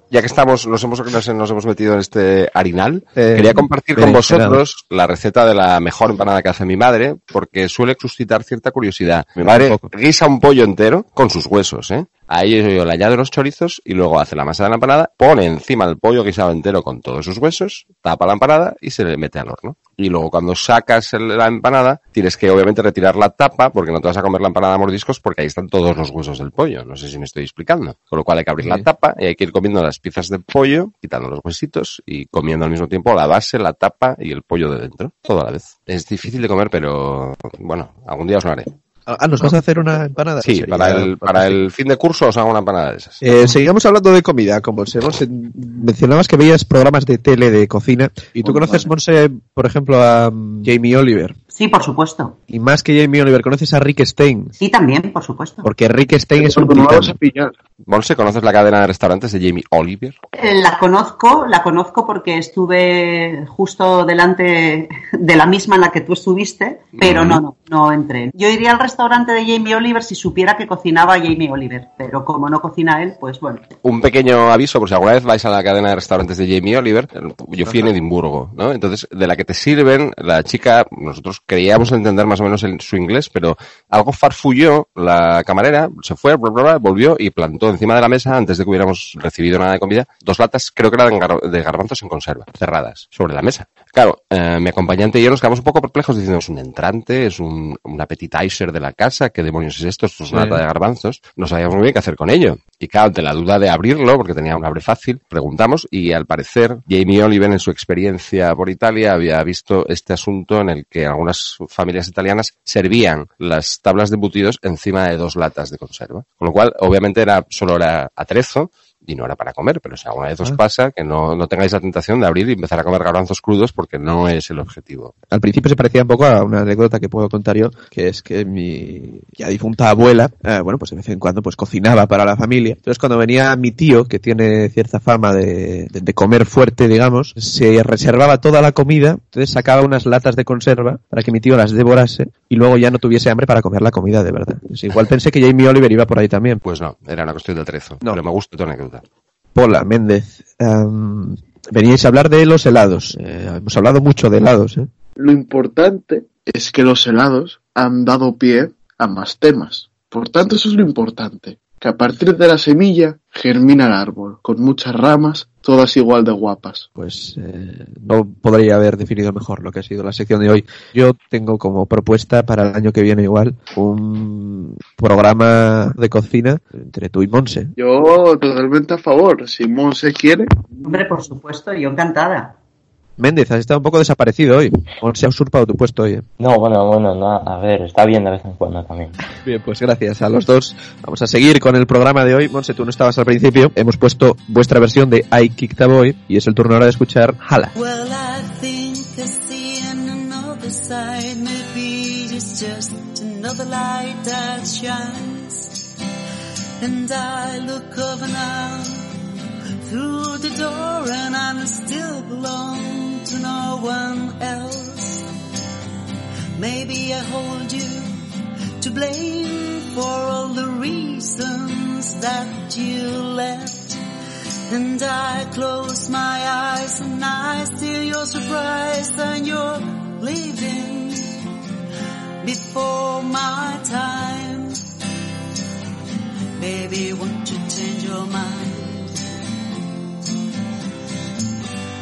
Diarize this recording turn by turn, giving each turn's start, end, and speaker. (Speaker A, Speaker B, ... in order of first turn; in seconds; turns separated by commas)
Speaker A: 0.1-38.7, Speaker B: 3.1-4.6, Speaker B: 9.4-9.9, Speaker B: 28.6-28.9, Speaker B: 39.1-41.6, Speaker A: 40.4-43.2, Speaker B: 43.2-51.4, Speaker C: 48.4-48.9, Speaker D: 51.5-52.4, Speaker B: 52.5-54.5, Speaker D: 54.6-55.6, Speaker B: 55.6-57.1, Speaker C: 56.4-57.5, Speaker A: 57.9-60.2, Speaker D: 60.4-73.6, Speaker A: 67.0-67.4, Speaker A: 73.8-125.1, Speaker B: 100.3-100.6, Speaker B: 125.3-146.6, Speaker A: 146.6-149.0, Speaker B: 149.5-154.9, Speaker C: 155.2-166.9, Speaker B: 166.9-177.7, Speaker C: 177.8-180.5, Speaker D: 180.8-182.5, Speaker B: 183.2-186.2, Speaker E: 186.4-189.2, Speaker B: 189.4-197.7, Speaker F: 197.7-205.8, Speaker F: 206.8-209.1, Speaker F: 209.8-215.2, Speaker F: 216.6-218.3, Speaker F: 218.8-224.0, Speaker F: 224.7-231.4, Speaker F: 232.4-234.8, Speaker F: 236.6-239.2